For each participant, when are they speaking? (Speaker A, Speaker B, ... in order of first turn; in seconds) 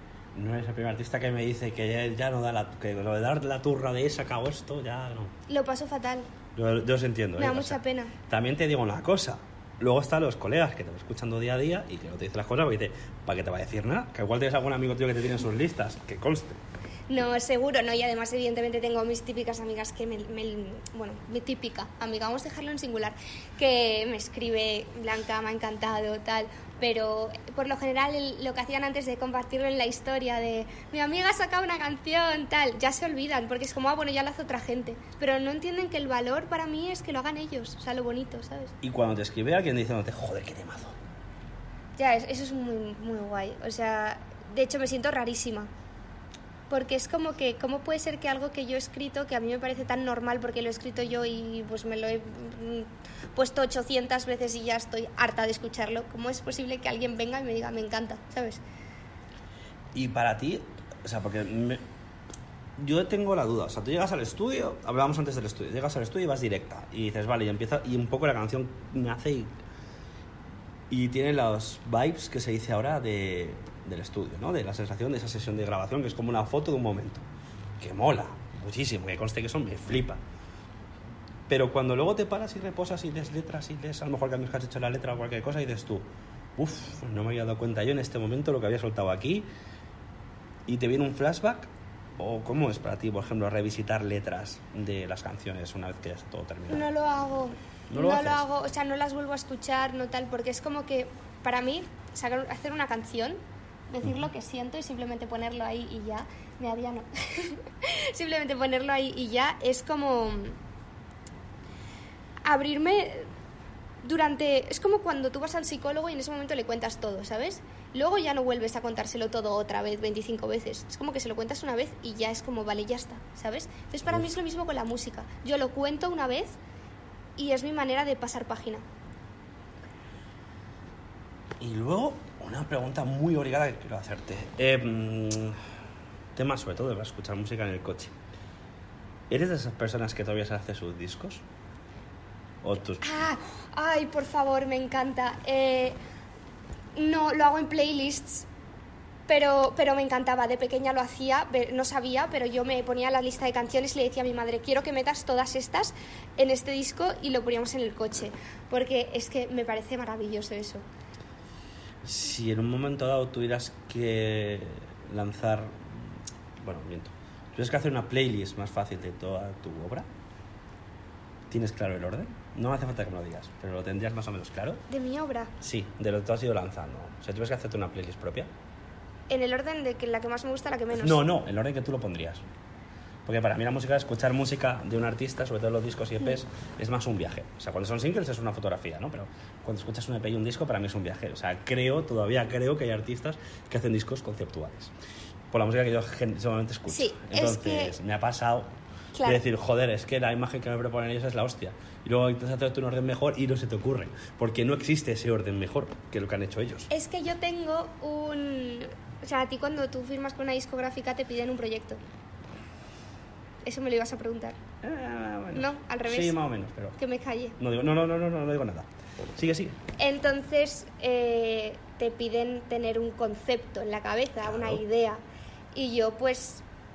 Speaker A: 0.3-5.3, 6.5-7.8, 8.3-16.6, 38.8-40.9, 59.9-61.8, 62.8-69.5, 70.9-77.2, 77.8-80.2, 81.5-89.5, 90.7-96.9, 97.9-98.4, 131.6-135.6, 136.3-138.1, 139.3-141.4, 142.6-143.0, 162.0-166.1, 166.6-170.1, 171.5-174.8, 175.6-178.5, 180.9-182.4, 183.2-194.9, 195.5-198.7, 199.2-206.9, 214.8-217.0, 217.6-219.8, 224.4-224.8
Speaker B: 5.5-6.3, 7.4-8.1, 17.1-38.7, 42.0-45.7, 46.7-58.6, 96.7-110.5, 112.4-113.3, 114.0-126.6, 127.3-128.8, 143.0-146.0, 146.9-148.5, 149.3-160.8, 174.9-175.5, 179.3-181.2, 196.9-197.9, 199.2-199.4, 206.9-212.0, 213.6-214.6, 215.5-216.3, 217.0-217.5, 220.0-225.2, 225.7-226.6